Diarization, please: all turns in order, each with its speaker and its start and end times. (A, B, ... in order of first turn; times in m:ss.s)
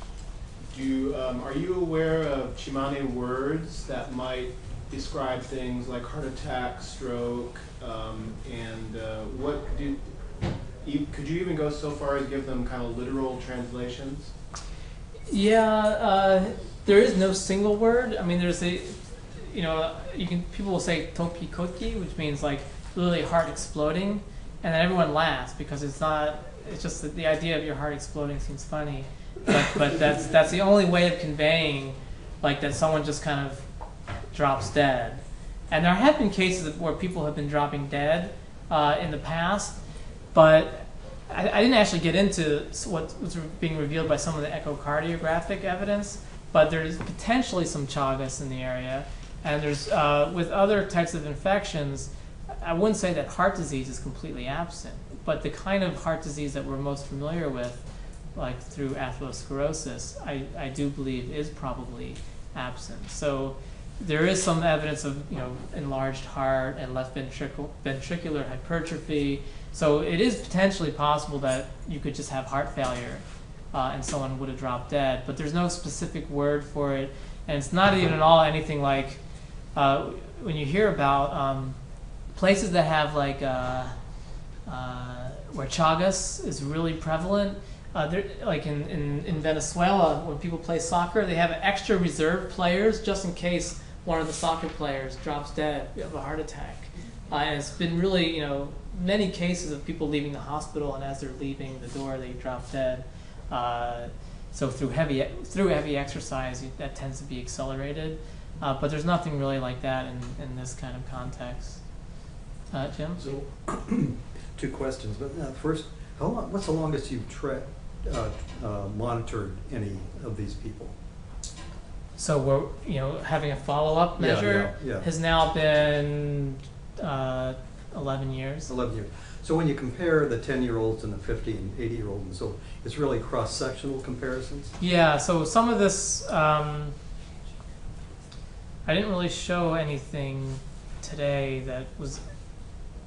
0:00.7-0:10.1 A
0:10.8-0:14.3 A
0:15.3-0:33.6 B
0:34.3-0:39.8 B
0:40.3-0:52.1 B
0:52.6-0:57.8 B
0:58.4-1:19.2 B
1:19.8-1:21.8 B
1:22.4-1:23.9 B
1:24.7-1:51.8 B
1:52.7-1:53.2 B
1:53.2-2:01.0 C
2:02.2-2:08.7 B
2:04.2-2:05.1 C
2:08.7-2:14.7 C
2:14.8-2:17.0 B
2:18.9-2:22.2 B